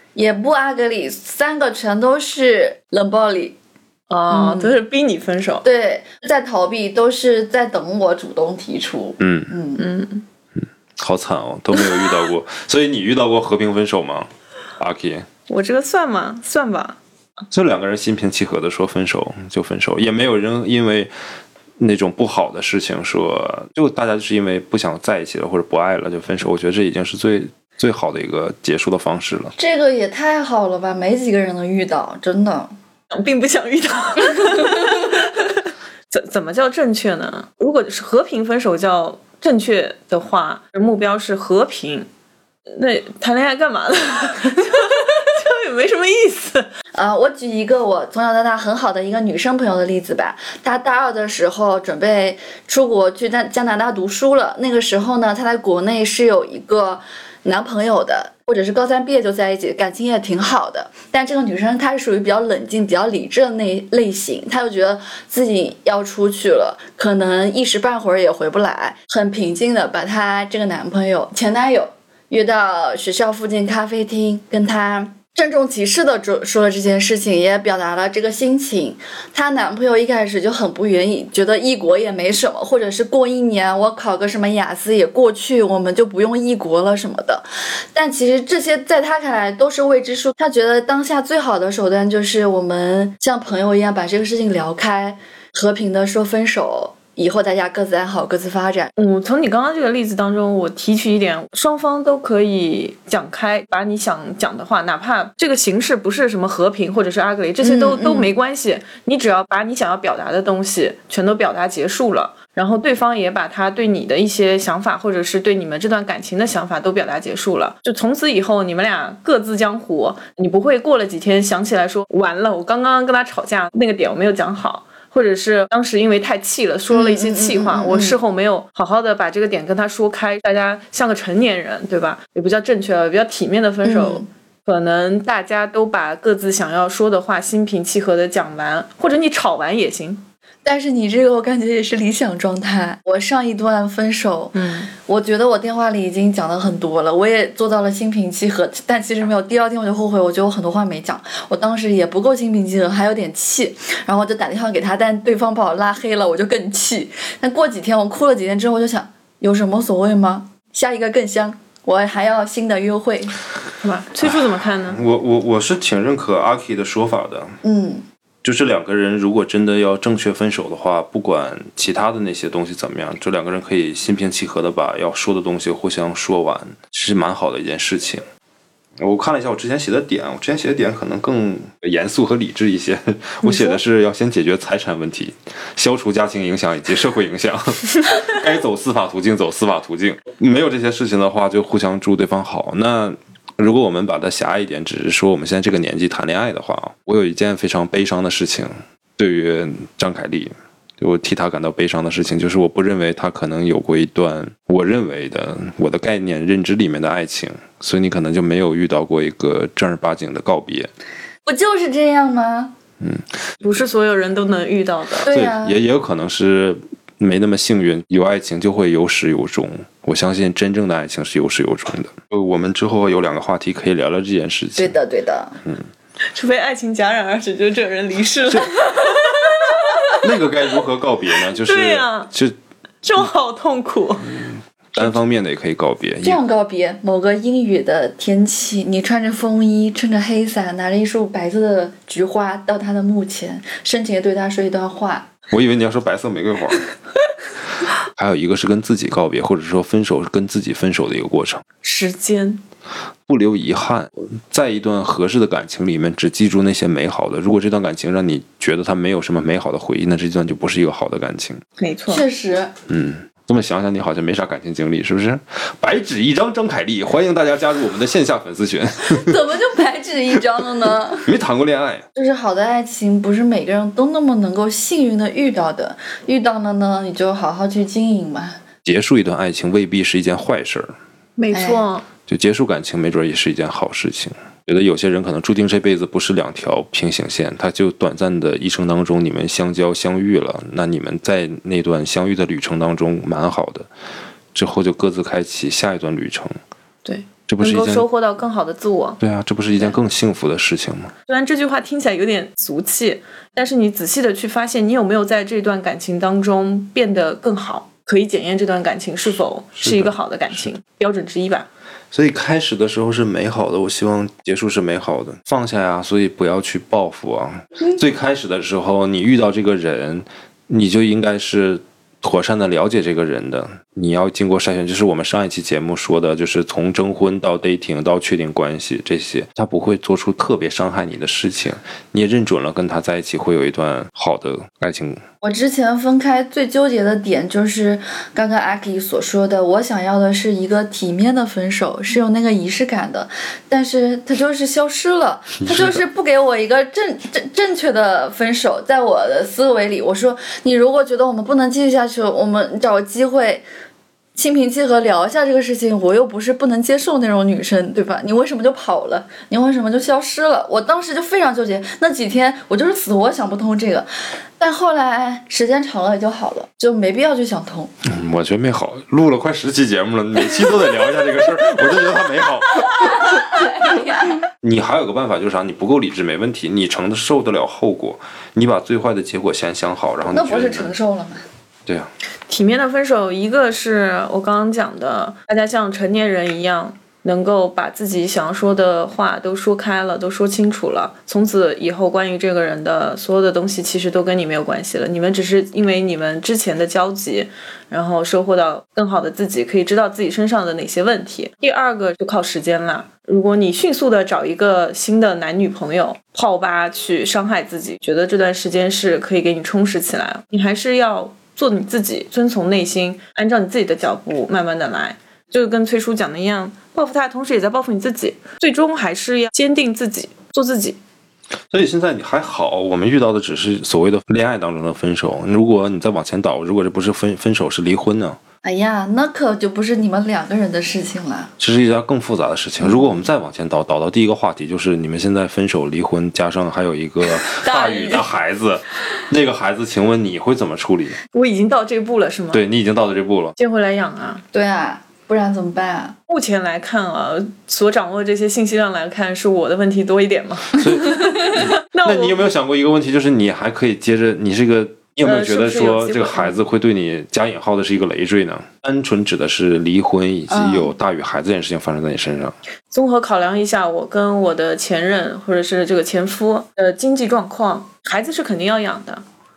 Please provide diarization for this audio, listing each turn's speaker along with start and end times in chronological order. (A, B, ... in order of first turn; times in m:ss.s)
0:00.2-0:03.6 A
0:04.1-0:05.7 B
0:04.3-0:04.8 A
0:05.6-0:09.8 A
0:09.2-0:09.5 C
0:09.8-0:10.2 B
0:10.6-0:15.3 C
0:15.5-0:17.0 B
0:17.5-0:21.1 C
0:21.8-0:29.5 C
0:29.6-0:32.7 A
0:33.1-0:42.1 B
0:34.4-0:34.9 A
0:42.7-0:46.7 B
0:46.9-1:38.9 A
1:39.0-2:20.2 B
1:47.6-1:48.3 A
2:06.9-2:08.2 A
2:13.8-2:14.3 A
2:20.6-2:43.4 A
2:24.5-2:24.9 B
2:43.8-2:45.0 B
2:44.2-2:47.6 C
2:47.6-2:48.0 A
2:48.4-2:58.2 C
2:59.0-3:30.9 C
3:03.4-3:03.8 B
3:31.5-3:32.8 A
3:33.0-3:33.3 C
3:33.6-3:35.3 B
3:35.2-3:35.8 A
3:35.3-3:45.0 C
3:44.8-3:45.6 A
3:46.3-3:50.1 B
3:50.1-3:52.6 C
3:51.5-3:52.3 B
3:53.0-3:54.4 B
3:54.4-3:56.4 C
3:56.2-4:05.3 A
4:05.5-4:06.8 C
4:08.1-4:11.6 C
4:11.8-4:12.6 B
4:13.3-4:21.6 C
4:21.8-4:22.2 B
4:22.1-4:22.7 A
4:22.9-4:29.4 C
4:29.1-4:31.3 A
4:31.2-4:32.0 C
4:32.2-4:38.6 A
4:38.8-4:41.0 C
4:41.4-4:42.1 B
4:41.5-4:41.9 A
4:42.3-4:53.9 C
4:54.5-4:56.5 C
4:57.0-4:59.2 B
4:57.5-4:58.1 C
4:59.2-5:01.1 C
5:01.3-5:11.7 B
5:09.8-5:10.1 C
5:12.1-5:35.2 C
5:35.4-5:53.7 A
5:45.6-5:46.0 C
5:54.4-6:04.1 A
6:04.6-6:07.9 A
6:08.0-6:14.1 C
6:13.0-6:14.4 A
6:14.6-6:21.0 C
6:20.3-6:21.4 A
6:22.5-7:01.0 B
7:01.7-7:08.4 C
7:08.6-7:11.5 A
7:11.6-7:21.2 C
7:12.8-7:13.2 A
7:17.3-7:18.3 A
7:21.3-7:22.6 B
7:22.5-7:23.6 C
7:23.6-7:24.4 B
7:24.5-7:26.2 A
7:26.3-7:32.5 B
7:30.7-7:42.6 C
7:35.2-7:36.6 B
7:40.5-7:40.9 A
7:42.9-7:49.2 B